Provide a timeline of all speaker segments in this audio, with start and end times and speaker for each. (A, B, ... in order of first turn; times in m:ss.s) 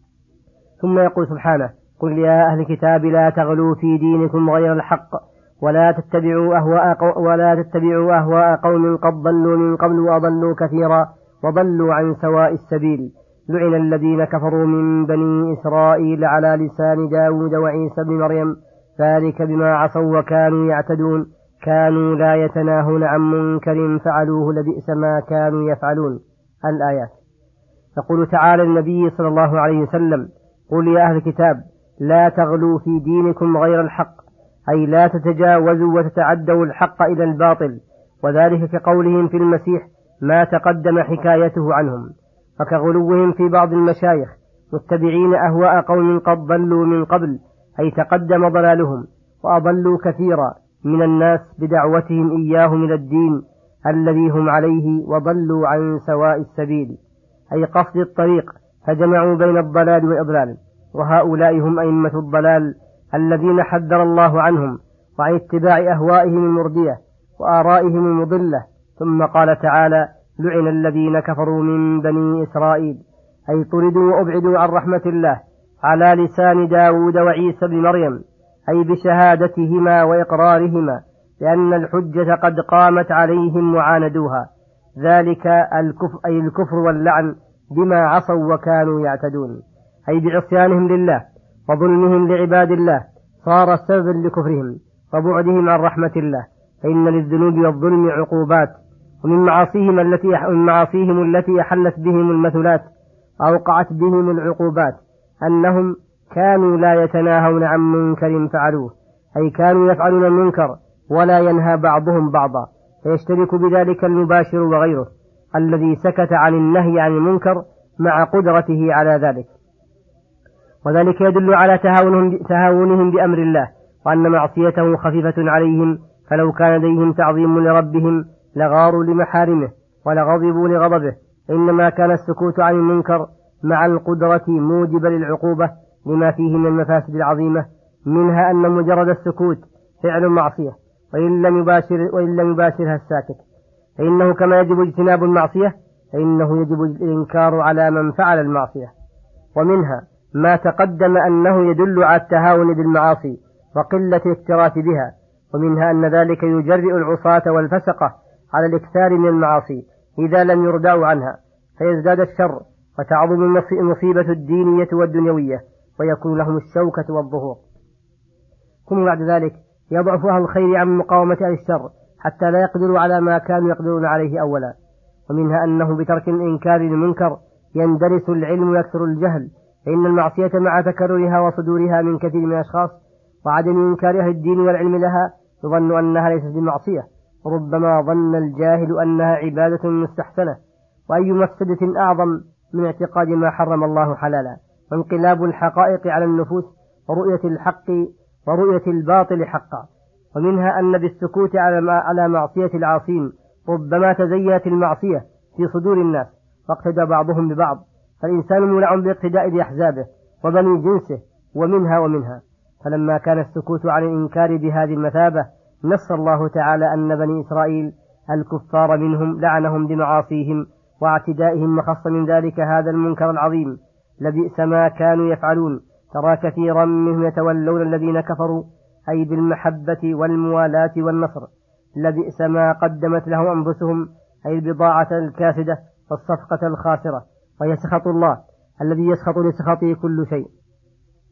0:00.8-0:27.1 A
0:28.0-0:42.1 A
0:42.6-0:57.0 A
0:57.5-1:24.5 A
1:25.0-1:42.9 A
1:43.4-1:59.5 A
2:00.8-2:23.4 A
2:24.0-2:28.9 A
2:29.5-2:47.6 A
2:48.9-2:54.7 A
2:55.3-3:10.6 A
3:11.1-3:51.5 A
3:52.0-4:00.5 A